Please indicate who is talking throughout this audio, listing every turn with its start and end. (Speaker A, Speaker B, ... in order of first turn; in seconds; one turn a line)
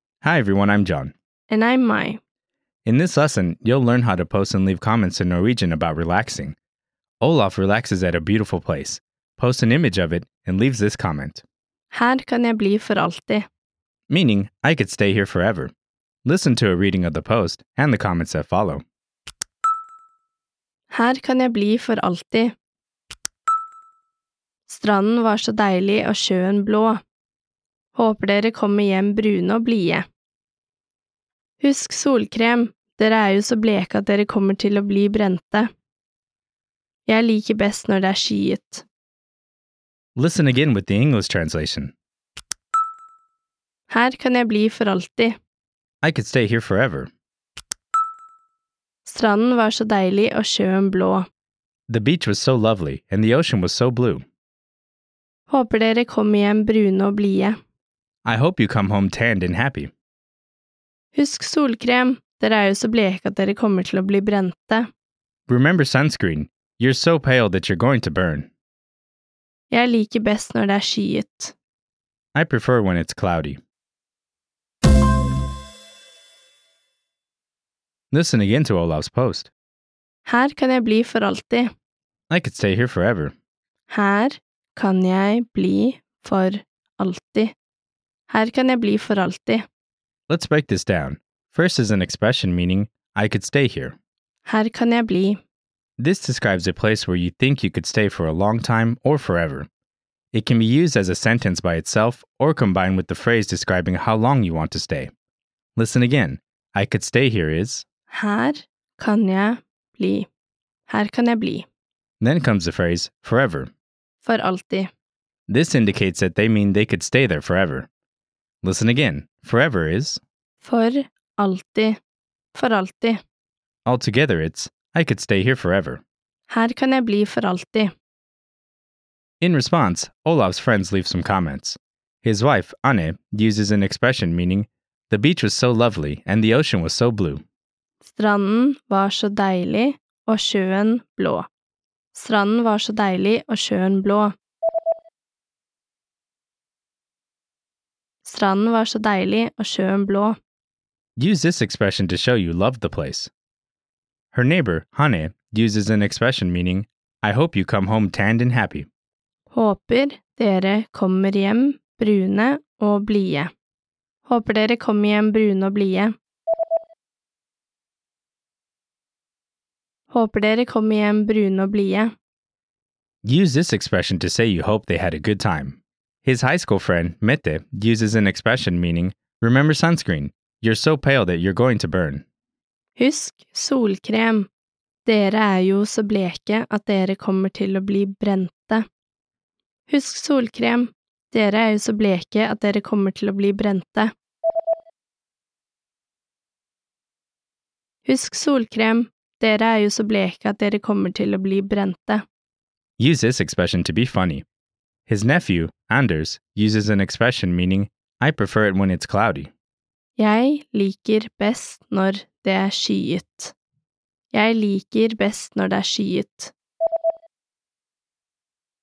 Speaker A: 0.2-1.1
Speaker B: 1.5-2.2
Speaker A: 2.9-6.6
Speaker A: 7.2-11.4
Speaker B: 11.9-13.5
Speaker A: 14.1-15.7
Speaker A: 16.2-18.8
Speaker B: 20.9-22.5
Speaker B: 24.7-27.0
Speaker B: 27.9-30.1
Speaker B: 31.6-35.7
Speaker B: 37.1-38.9
Speaker A: 40.2-41.9
Speaker B: 43.9-45.4
Speaker A: 46.0-47.1
Speaker B: 49.0-51.3
Speaker A: 51.9-54.2
Speaker B: 55.5-57.6
Speaker A: 58.2-59.9
Speaker B: 61.1-64.9
Speaker A: 65.5-68.5
Speaker B: 69.7-71.5
Speaker A: 72.3-73.6
Speaker A: 78.1-79.5
Speaker B: 80.3-81.7
Speaker A: 82.3-83.3
Speaker B: 83.9-87.5
Speaker B: 88.3-89.6
Speaker A: 90.3-94.0
Speaker B: 94.5-95.4
Speaker A: 96.0-99.7
Speaker A: 100.3-105.1
Speaker A: 105.8-107.8
Speaker B: 108.1-110.3
Speaker B: 110.9-111.7
Speaker A: 112.2-113.7
Speaker B: 114.2-114.9
Speaker A: 115.5-117.9
Speaker A: 118.6-120.2
Speaker B: 120.6-122.0
Speaker B: 122.5-123.2
Speaker A: 123.9-126.0
Speaker B: 126.5-127.9
Speaker A: 129.4-137.4
Speaker B: 138.0-141.5
Speaker B: 142.1-144.3
Speaker B: 148.2-150.4
Speaker A: 151.2-153.3
Speaker A: 154.3-158.9
Speaker B: 159.5-163.5
Speaker B: 164.3-166.1
Speaker B: 170.1-172.1
Speaker A: 173.2-182.2
Speaker B: 183.0-184.5
Speaker B: 185.1-188.8
Speaker B: 189.9-194.1
Speaker B: 198.1-202.2
Speaker A: 203.0-204.4
Speaker A: 205.1-209.5
Speaker B: 210.2-213.5
Speaker B: 214.3-216.5